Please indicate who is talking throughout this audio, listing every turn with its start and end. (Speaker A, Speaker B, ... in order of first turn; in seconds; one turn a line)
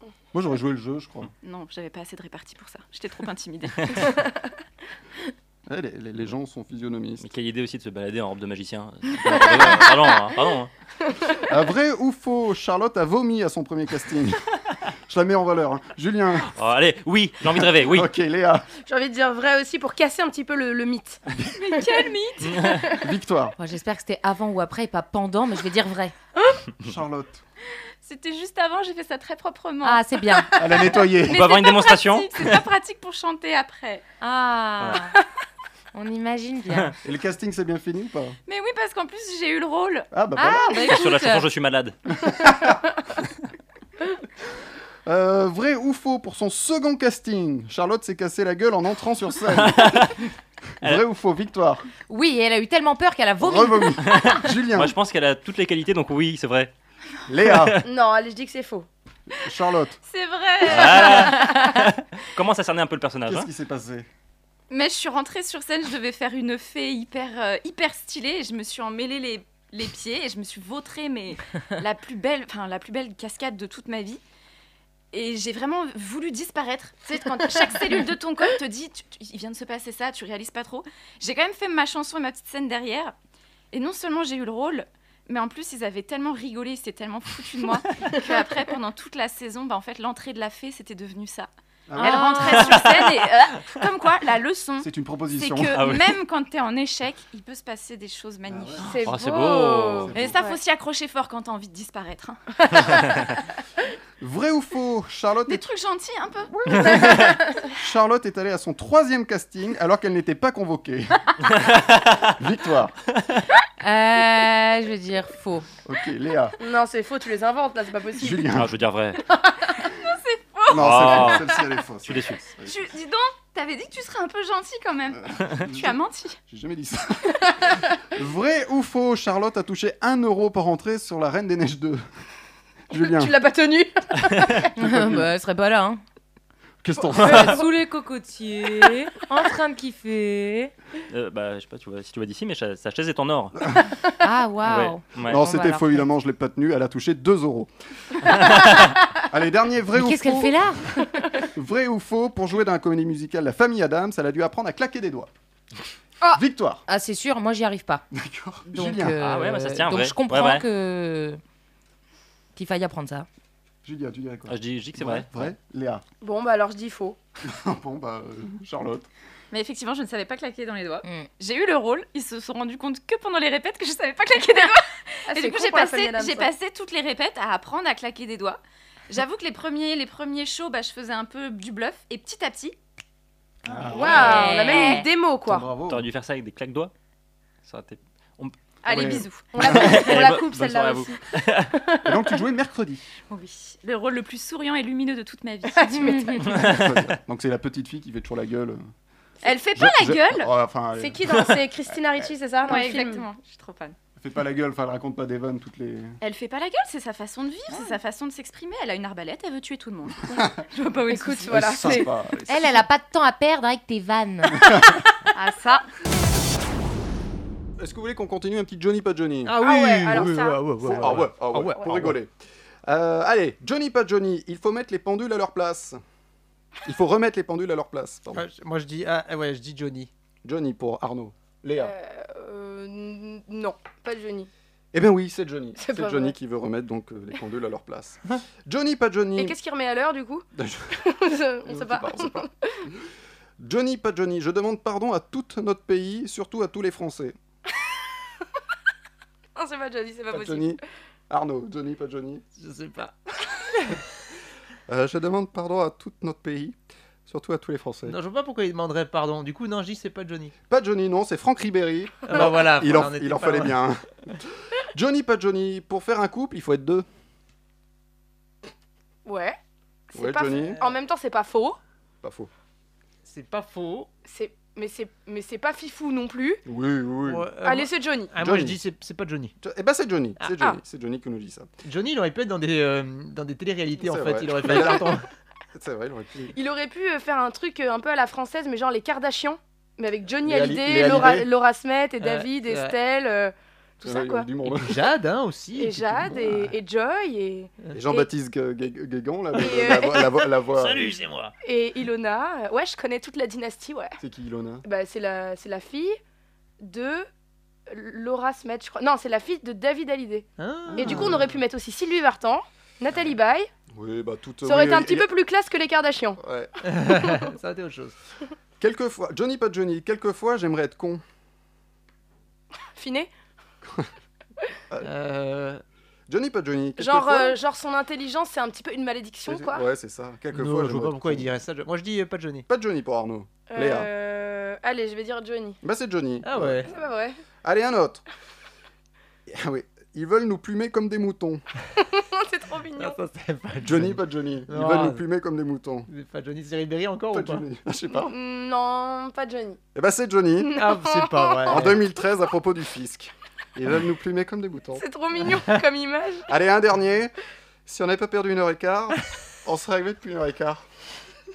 Speaker A: 0.3-1.3
Speaker B: 1.4-4.1
Speaker A: 5.7-7.3
Speaker C: 7.2-10.7
Speaker A: 11.4-14.4
Speaker A: 15.1-16.5
Speaker C: 16.5-18.1
Speaker A: 17.5-18.6
Speaker D: 18.9-21.2
Speaker B: 21.6-22.7
Speaker C: 22.5-22.8
Speaker A: 23.0-23.5
Speaker E: 23.6-26.1
Speaker A: 26.8-27.4
Speaker B: 28.0-30.4
Speaker E: 29.8-30.5
Speaker A: 30.6-31.4
Speaker C: 31.2-32.5
Speaker B: 31.2-34.0
Speaker E: 34.2-35.1
Speaker E: 35.9-36.9
Speaker A: 37.0-38.4
Speaker B: 38.5-40.1
Speaker A: 40.1-41.0
Speaker E: 40.3-41.5
Speaker C: 40.8-42.0
Speaker A: 42.2-42.8
Speaker A: 45.0-50.1
Speaker C: 49.6-50.1
Speaker A: 50.8-51.8
Speaker E: 52.1-54.0
Speaker A: 53.4-54.9
Speaker C: 54.0-56.7
Speaker A: 57.3-57.8
Speaker C: 57.5-57.8
Speaker D: 57.8-58.9
Speaker A: 59.3-60.0
Speaker B: 60.1-61.8
Speaker C: 60.6-63.5
Speaker A: 63.2-64.1
Speaker B: 64.7-74.2
Speaker B: 75.1-83.1
Speaker B: 83.7-98.9
Speaker A: 91.9-92.8
Speaker C: 92.5-93.1
Speaker A: 94.8-95.8
Speaker C: 95.7-96.0
Speaker A: 98.5-98.8
Speaker D: 98.8-100.6
Speaker C: 99.0-100.2
Speaker A: 100.0-100.3
Speaker B: 100.1-102.4
Speaker C: 102.9-103.1
Speaker A: 104.2-105.6
Speaker B: 105.5-106.5
Speaker A: 106.5-111.3
Speaker D: 106.8-107.7
Speaker C: 111.6-112.2
Speaker A: 112.4-112.9
Speaker E: 113.8-115.7
Speaker A: 115.8-116.5
Speaker D: 116.6-118.5
Speaker A: 118.2-118.7
Speaker C: 118.5-119.2
Speaker B: 120.0-121.2
Speaker A: 120.7-122.8
Speaker C: 120.7-122.4
Speaker B: 122.6-126.4
Speaker A: 125.3-132.0
Speaker A: 132.9-133.3
Speaker D: 132.9-134.6
Speaker E: 134.7-136.0
Speaker A: 134.8-135.3
Speaker A: 136.8-137.6
Speaker E: 137.1-140.7
Speaker C: 137.2-137.6
Speaker C: 141.1-143.7
Speaker E: 144.2-146.0
Speaker C: 144.6-145.4
Speaker A: 145.2-147.7
Speaker C: 148.3-148.9
Speaker A: 149.3-150.7
Speaker E: 149.9-151.0
Speaker A: 151.5-155.3
Speaker E: 156.2-158.0
Speaker A: 156.3-156.8
Speaker A: 158.1-159.2
Speaker E: 158.7-161.4
Speaker C: 159.2-160.6
Speaker E: 162.5-163.3
Speaker A: 163.8-166.0
Speaker C: 164.5-165.3
Speaker D: 166.2-167.2
Speaker A: 167.4-169.1
Speaker B: 169.5-182.8
Speaker D: 175.3-176.5
Speaker A: 183.7-184.3
Speaker D: 183.9-185.7
Speaker E: 184.1-185.1
Speaker B: 184.5-184.9
Speaker A: 185.4-186.0
Speaker C: 185.9-186.9
Speaker C: 187.6-191.7
Speaker B: 188.8-189.4
Speaker A: 188.9-190.2
Speaker D: 189.0-191.2
Speaker A: 192.0-193.1
Speaker B: 193.3-196.6
Speaker D: 195.8-196.5
Speaker C: 196.4-197.1
Speaker A: 196.5-198.8
Speaker B: 199.4-200.5
Speaker A: 199.7-201.6
Speaker D: 201.0-203.2
Speaker A: 202.2-202.7
Speaker B: 202.6-203.9
Speaker A: 204.2-206.2
Speaker B: 206.2-212.0
Speaker D: 211.1-212.1
Speaker A: 211.5-212.8
Speaker E: 212.5-214.8
Speaker A: 214.6-214.9
Speaker B: 215.4-215.8
Speaker A: 217.8-219.6
Speaker F: 219.4-222.1
Speaker D: 219.6-221.9
Speaker A: 220.8-222.3
Speaker A: 222.8-226.0
Speaker A: 226.8-228.4
Speaker F: 228.3-230.1
Speaker A: 230.4-231.9
Speaker D: 231.8-234.5
Speaker A: 234.9-239.6
Speaker D: 235.8-236.3
Speaker D: 239.3-242.7
Speaker A: 240.5-240.9
Speaker A: 241.7-242.5
Speaker A: 243.6-247.3
Speaker D: 249.6-250.8
Speaker A: 250.3-252.4
Speaker F: 252.6-253.1
Speaker A: 254.9-258.2
Speaker F: 258.1-260.5
Speaker A: 260.7-264.0
Speaker F: 262.3-263.8
Speaker A: 264.9-267.1
Speaker D: 269.2-269.6
Speaker D: 270.1-271.8
Speaker A: 270.1-270.8
Speaker A: 272.2-272.5
Speaker F: 273.2-274.1
Speaker D: 274.2-276.6
Speaker A: 276.6-277.5
Speaker F: 277.2-279.5
Speaker D: 277.6-278.3
Speaker A: 278.4-278.8
Speaker A: 279.6-281.7
Speaker F: 281.8-285.2
Speaker A: 284.0-285.1
Speaker A: 285.7-286.5
Speaker D: 286.5-294.5
Speaker A: 290.4-291.5
Speaker F: 292.2-292.9
Speaker A: 294.0-295.0
Speaker F: 294.6-296.4
Speaker D: 295.8-298.3
Speaker A: 296.3-296.7
Speaker A: 297.9-301.2
Speaker D: 299.5-300.3
Speaker F: 300.7-301.5
Speaker D: 301.6-304.1
Speaker A: 304.2-304.8
Speaker D: 304.8-306.2
Speaker D: 306.8-307.3
Speaker D: 307.9-313.7
Speaker F: 310.6-311.5
Speaker A: 310.9-311.4
Speaker A: 313.9-315.3
Speaker D: 314.6-316.4
Speaker A: 316.4-316.7
Speaker F: 316.8-318.1
Speaker A: 318.8-321.2
Speaker D: 322.9-323.3
Speaker F: 325.0-325.8
Speaker A: 326.3-327.6
Speaker D: 327.0-329.8
Speaker A: 329.4-331.5
Speaker F: 330.5-332.6
Speaker A: 332.7-334.1
Speaker D: 333.7-335.8
Speaker A: 335.8-336.9
Speaker F: 336.4-336.9
Speaker D: 336.9-337.4
Speaker A: 337.6-338.2
Speaker A: 339.5-341.6
Speaker D: 342.1-343.2
Speaker F: 343.0-345.2
Speaker A: 343.8-346.1
Speaker F: 346.1-347.6
Speaker A: 347.3-348.3
Speaker D: 348.1-349.8
Speaker A: 349.9-350.8
Speaker D: 350.6-351.9
Speaker F: 350.7-352.0
Speaker A: 351.6-355.0
Speaker D: 354.9-356.5
Speaker A: 356.5-357.3
Speaker A: 357.9-360.8